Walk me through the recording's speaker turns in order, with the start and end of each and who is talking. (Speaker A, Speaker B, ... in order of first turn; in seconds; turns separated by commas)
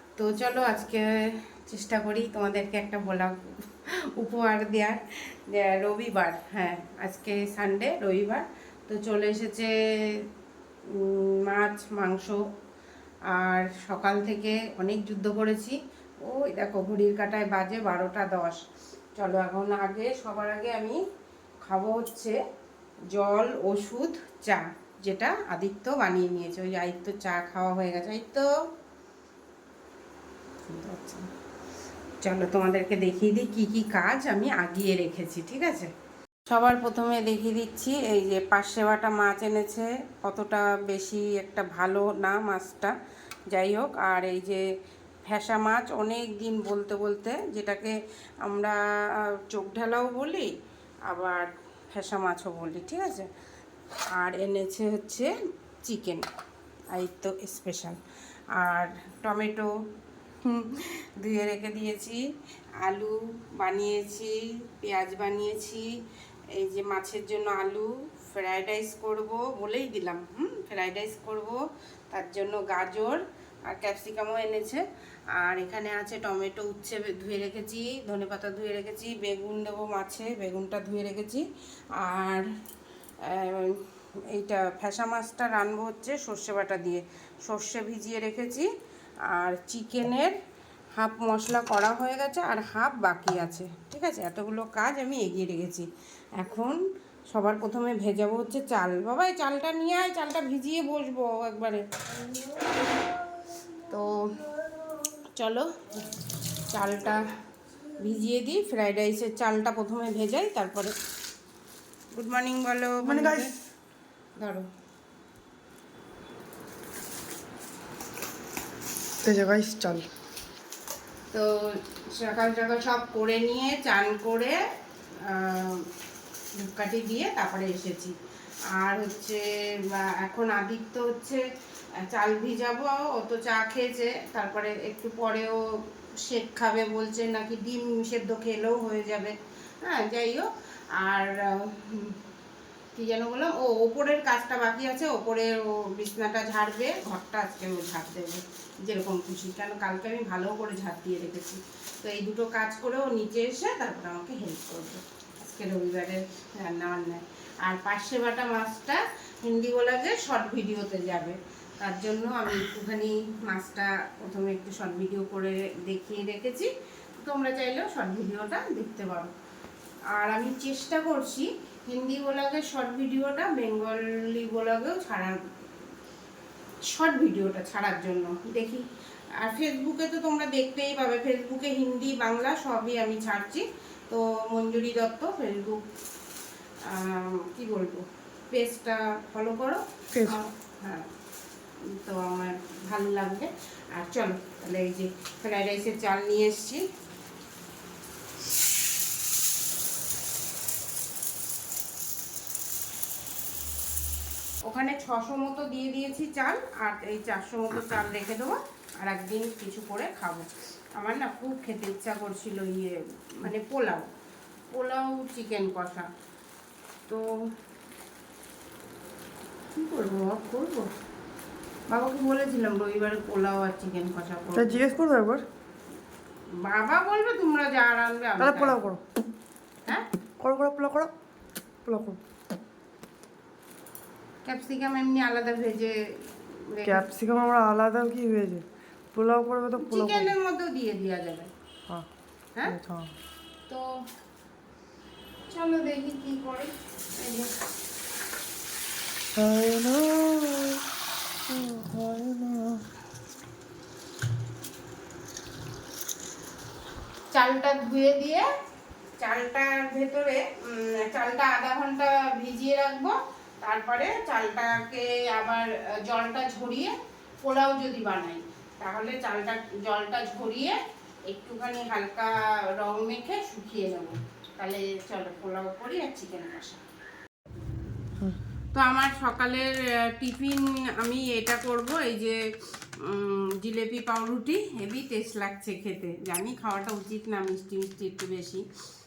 Speaker A: 0.2-1.0, Speaker A: 1.7-3.4, Speaker A: 4.2-10.2, Speaker A: 10.9-12.4, Speaker A: 13.3-18.6, Speaker A: 19.2-21.0, Speaker A: 21.6-22.4, Speaker A: 23.1-28.5, Speaker A: 30.7-31.3, Speaker A: 32.2-35.9, Speaker A: 36.5-43.0, Speaker A: 43.5-44.6, Speaker A: 45.3-50.5, Speaker A: 51.1-53.3, Speaker A: 54.1-55.3, Speaker A: 55.8-56.3, Speaker A: 56.9-58.0, Speaker A: 58.6-59.7, Speaker A: 60.4-62.2, Speaker A: 62.8-65.9, Speaker A: 66.5-74.8, Speaker A: 75.4-81.5, Speaker A: 82.0-82.5, Speaker A: 83.2-88.7, Speaker A: 89.3-90.4, Speaker A: 91.0-95.9, Speaker A: 96.4-96.8, Speaker A: 97.3-101.8, Speaker A: 103.8-104.3, Speaker A: 105.4-105.7, Speaker A: 106.7-107.2, Speaker A: 108.0-111.0, Speaker A: 112.2-113.5, Speaker B: 113.0-113.5, Speaker A: 114.4-114.7, Speaker B: 119.2-120.1, Speaker A: 121.3-124.6, Speaker A: 125.2-125.9, Speaker A: 126.6-128.1, Speaker A: 128.7-131.4, Speaker A: 132.0-135.6, Speaker A: 136.2-142.2, Speaker A: 142.9-169.3, Speaker A: 170.2-175.4, Speaker A: 176.9-178.8, Speaker A: 179.4-185.8, Speaker A: 186.9-191.1, Speaker B: 190.1-190.4, Speaker A: 191.9-196.8, Speaker A: 204.7-214.1, Speaker A: 214.7-216.1, Speaker A: 219.8-220.9, Speaker A: 221.9-224.8, Speaker B: 224.6-225.4, Speaker A: 226.6-228.8, Speaker B: 228.4-229.0, Speaker B: 230.4-231.1, Speaker B: 231.9-232.2, Speaker A: 234.4-237.1, Speaker B: 236.8-240.3, Speaker A: 239.8-241.5, Speaker B: 242.7-243.1, Speaker A: 245.5-247.5, Speaker B: 249.4-250.8, Speaker B: 251.5-252.8, Speaker A: 257.3-258.5, Speaker A: 259.2-276.8, Speaker A: 278.7-282.4, Speaker A: 283.0-288.6